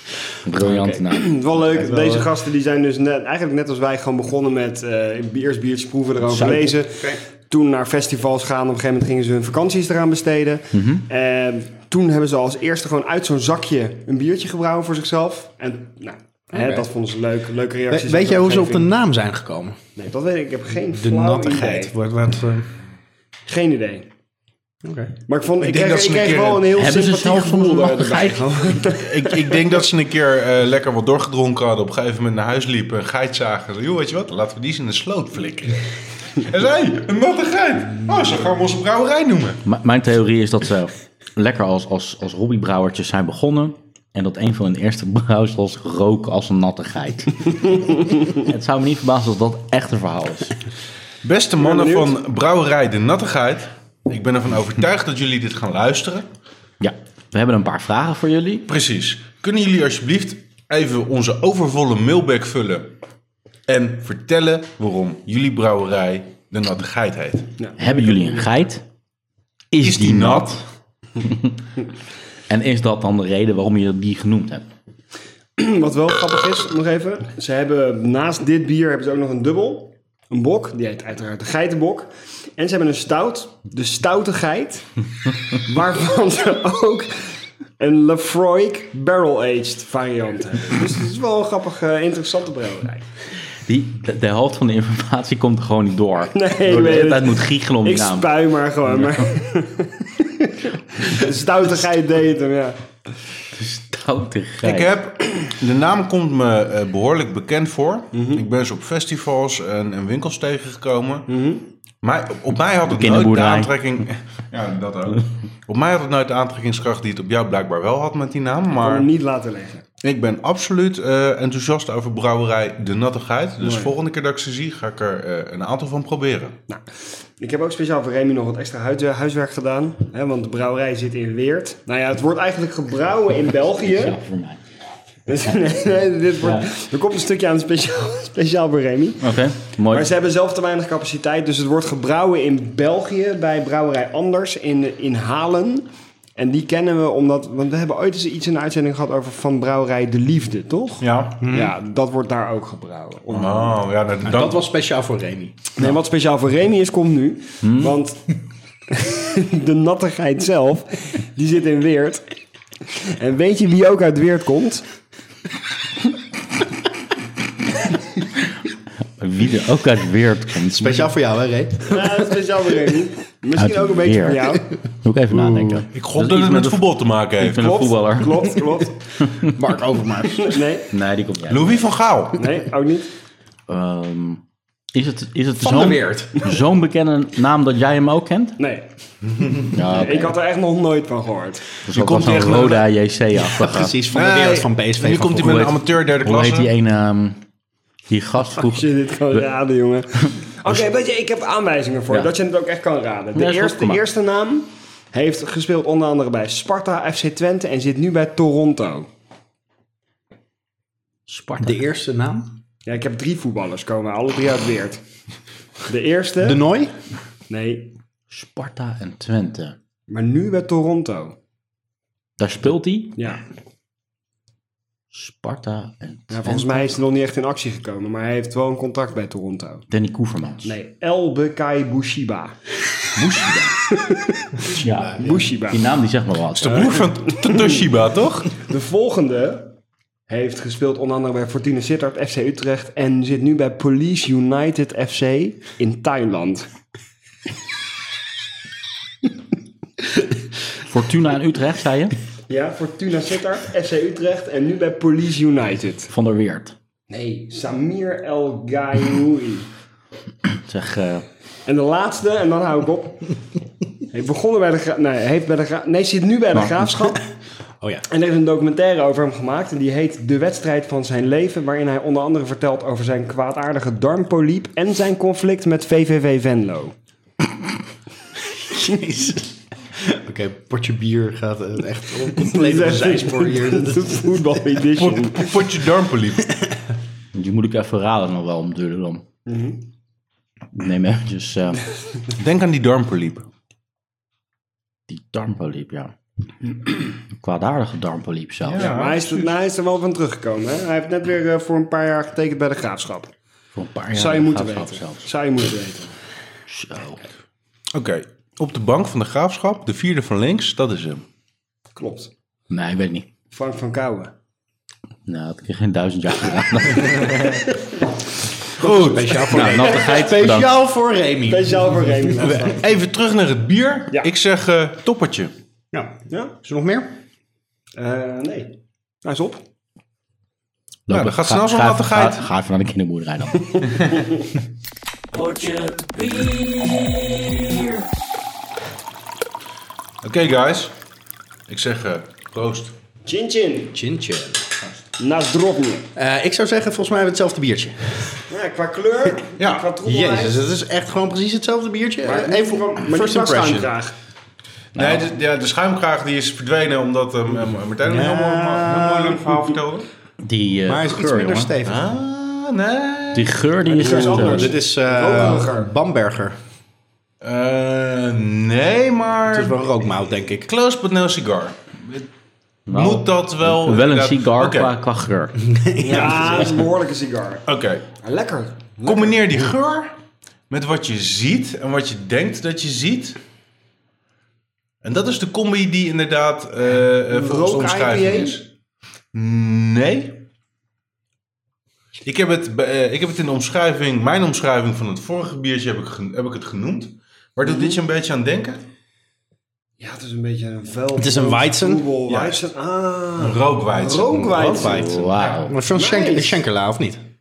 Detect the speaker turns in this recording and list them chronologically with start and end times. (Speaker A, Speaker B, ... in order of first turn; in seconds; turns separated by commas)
Speaker A: 0.5-2.3, Speaker B: 0.6-18.9, Speaker A: 6.2-6.8, Speaker A: 10.7-11.1, Speaker C: 16.5-16.9, Speaker C: 17.9-19.8, Speaker B: 20.0-21.9, Speaker C: 20.9-22.7, Speaker B: 23.5-24.1, Speaker C: 24.8-25.2, Speaker B: 25.3-29.8, Speaker D: 25.6-26.7, Speaker A: 26.7-28.8, Speaker D: 29.0-35.8, Speaker D: 36.4-39.6, Speaker A: 39.6-50.6, Speaker D: 51.2-56.3, Speaker B: 51.6-52.2, Speaker A: 56.8-58.7, Speaker D: 58.7-62.9, Speaker D: 63.7-67.5, Speaker B: 67.6-68.5, Speaker A: 67.8-68.8, Speaker A: 69.7-70.6, Speaker D: 69.8-70.6, Speaker A: 72.5-74.7, Speaker B: 75.6-93.1, Speaker A: 93.7-98.3, Speaker B: 96.3-102.8, Speaker A: 99.0-99.2, Speaker A: 103.5-104.9, Speaker D: 104.6-111.3, Speaker B: 108.1-108.5, Speaker B: 111.3-111.7, Speaker D: 112.0-119.1, Speaker A: 112.9-113.7, Speaker B: 118.7-119.8, Speaker D: 120.0-126.6, Speaker B: 123.6-123.9, Speaker B: 127.4-134.2, Speaker A: 133.8-134.6, Speaker B: 135.3-153.8, Speaker A: 136.4-136.7, Speaker A: 139.2-140.1, Speaker D: 151.0-151.5, Speaker C: 151.4-151.7, Speaker D: 153.3-154.6, Speaker C: 154.2-155.6, Speaker B: 155.8-158.3, Speaker A: 157.6-157.9, Speaker B: 158.9-162.3, Speaker B: 162.9-164.9, Speaker A: 169.2-171.1, Speaker C: 170.8-172.3, Speaker B: 171.9-174.7, Speaker A: 173.6-178.6, Speaker D: 175.9-177.9, Speaker B: 177.6-179.4, Speaker C: 179.4-180.6, Speaker B: 180.2-180.9, Speaker A: 180.9-181.8, Speaker D: 181.5-182.4, Speaker B: 182.4-183.1, Speaker A: 183.7-184.4, Speaker A: 184.9-188.6, Speaker C: 185.6-186.5, Speaker B: 188.6-188.9, Speaker A: 189.7-190.3, Speaker B: 189.9-192.7, Speaker A: 191.8-194.0, Speaker D: 191.9-192.8, Speaker C: 193.5-195.7, Speaker D: 194.1-196.7, Speaker A: 195.4-197.4, Speaker A: 198.1-199.4, Speaker B: 198.6-209.1, Speaker A: 203.3-204.0, Speaker A: 211.3-211.8, Speaker C: 211.6-212.6, Speaker B: 212.9-215.0, Speaker B: 215.9-216.6, Speaker C: 216.4-216.9, Speaker B: 217.5-217.9, Speaker A: 218.3-219.8, Speaker B: 220.1-221.4, Speaker A: 222.4-223.2, Speaker B: 223.2-223.4, Speaker A: 225.1-227.0, Speaker B: 226.3-229.8, Speaker A: 229.9-230.7, Speaker B: 230.6-232.6, Speaker A: 233.2-233.8, Speaker B: 233.9-234.6, Speaker A: 234.7-237.0, Speaker C: 234.7-235.5, Speaker B: 235.2-235.9, Speaker D: 236.6-238.6, Speaker B: 236.7-237.8, Speaker B: 238.5-239.8, Speaker B: 240.3-246.7, Speaker A: 250.8-252.2, Speaker B: 252.5-256.1, Speaker A: 256.1-256.8, Speaker B: 257.1-259.7, Speaker A: 260.6-261.2, Speaker B: 261.7-263.4, Speaker B: 264.1-267.2, Speaker A: 266.6-266.9, Speaker B: 268.1-276.9, Speaker C: 278.7-284.5, Speaker B: 282.3-285.6, Speaker D: 285.0-286.5, Speaker A: 287.3-289.2, Speaker B: 289.5-289.9, Speaker A: 290.7-291.8, Speaker D: 292.4-293.5, Speaker A: 295.1-296.1, Speaker A: 297.3-299.0, Speaker D: 298.6-299.5, Speaker B: 298.8-303.3, Speaker A: 303.8-305.3, Speaker B: 304.1-306.2, Speaker A: 306.7-307.2, Speaker D: 307.9-311.2, Speaker B: 311.9-312.3, Speaker A: 312.7-313.3, Speaker B: 313.5-314.3, Speaker A: 315.3-317.6, Speaker B: 317.3-317.7, Speaker D: 318.8-319.4, Speaker B: 318.8-320.1, Speaker C: 318.8-322.5, Speaker A: 319.5-320.7, Speaker B: 321.5-322.8, Speaker D: 322.4-325.5, Speaker C: 325.9-327.2, Speaker B: 326.3-326.6, Speaker B: 328.0-329.6, Speaker A: 331.1-333.8, Speaker D: 331.1-332.5, Speaker A: 335.3-338.0, Speaker D: 340.2-340.9, Speaker D: 341.7-342.9, Speaker B: 343.2-343.9, Speaker C: 343.9-344.8, Speaker B: 345.2-346.1, Speaker C: 346.2-348.4, Speaker B: 348.5-350.6, Speaker D: 349.6-349.9, Speaker C: 350.0-353.9, Speaker B: 352.2-354.1, Speaker A: 354.9-355.3, Speaker D: 355.0-360.1, Speaker C: 358.0-359.8, Speaker A: 360.4-361.7, Speaker C: 360.9-362.1, Speaker D: 361.8-363.6, Speaker A: 363.3-364.8, Speaker B: 363.9-365.9, Speaker C: 364.0-366.6, Speaker D: 367.4-369.8, Speaker C: 369.5-370.7, Speaker D: 370.6-372.3, Speaker A: 372.9-375.6, Speaker D: 372.9-374.9, Speaker C: 375.6-376.8, Speaker B: 376.0-377.6, Speaker D: 377.7-378.1, Speaker B: 378.2-379.5, Speaker D: 379.1-380.1, Speaker D: 380.7-383.4, Speaker D: 385.0-388.6, Speaker B: 387.3-388.6, Speaker D: 389.3-390.5, Speaker D: 392.2-398.9, Speaker B: 397.6-398.0, Speaker B: 400.0-405.2, Speaker C: 401.2-402.1, Speaker D: 402.3-402.6, Speaker D: 403.4-405.5, Speaker C: 404.6-407.2, Speaker A: 404.8-405.8, Speaker B: 405.9-406.6